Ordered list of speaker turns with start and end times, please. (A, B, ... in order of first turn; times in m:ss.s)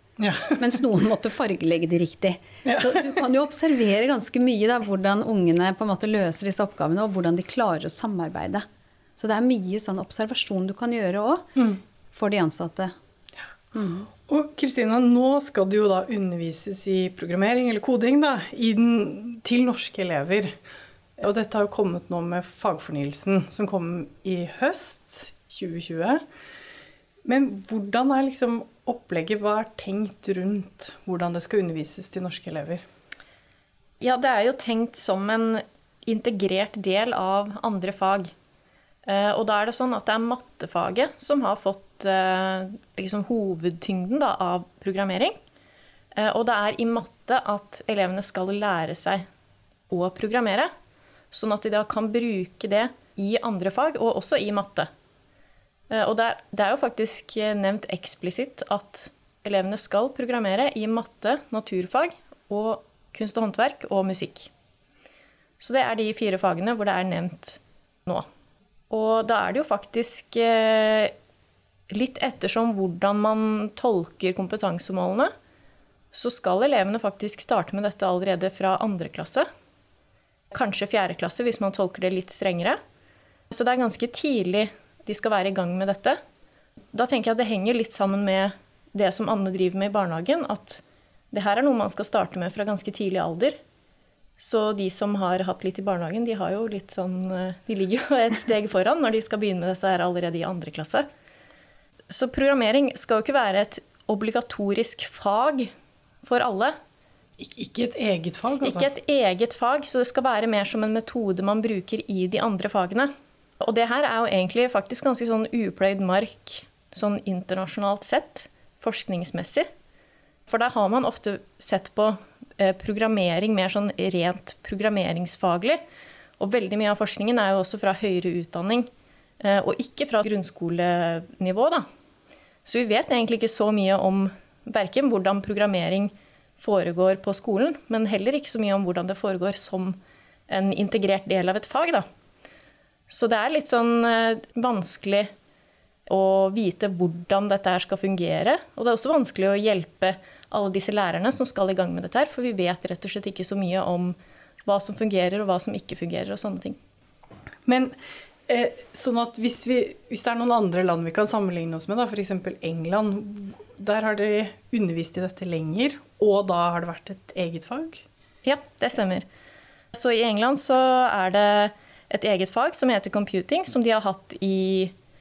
0:00.2-0:00.6 A
0:00.6-0:08.6 B
0:02.6-0:03.0 A
0:09.2-0:11.5 B
0:12.1-0:12.9 B
0:13.7-0:14.1 B
0:14.2-0:20.6 A
0:21.2-0:26.2 A
0:27.2-0:32.8 A
0:34.0-0:38.3 C
0:39.1-0:45.4 C
0:46.2-0:49.2 C
0:49.9-0:50.7 C
0:51.3-0:54.9 C
0:55.9-1:04.5 C
1:05.6-1:08.3 C
1:08.9-1:11.1 C
1:11.9-1:15.3 C
1:16.1-1:19.5 C
1:20.5-1:22.8 C
1:23.5-1:26.2 C
1:26.9-1:33.6 C
1:34.4-1:41.1 C
1:42.1-1:45.7 C
1:46.2-1:46.8 C
1:47.4-1:48.9 A
1:48.6-1:59.7 C
2:00.5-2:05.8 C
2:06.4-2:08.9 C
2:09.4-2:11.8 C
2:12.6-2:20.0 C
2:20.5-2:22.1 C
2:23.1-2:25.3 C
2:26.1-2:36.8 C
2:37.7-2:37.9 A
2:38.5-2:48.0 A
2:48.4-2:49.2 C
2:49.9-2:54.9 C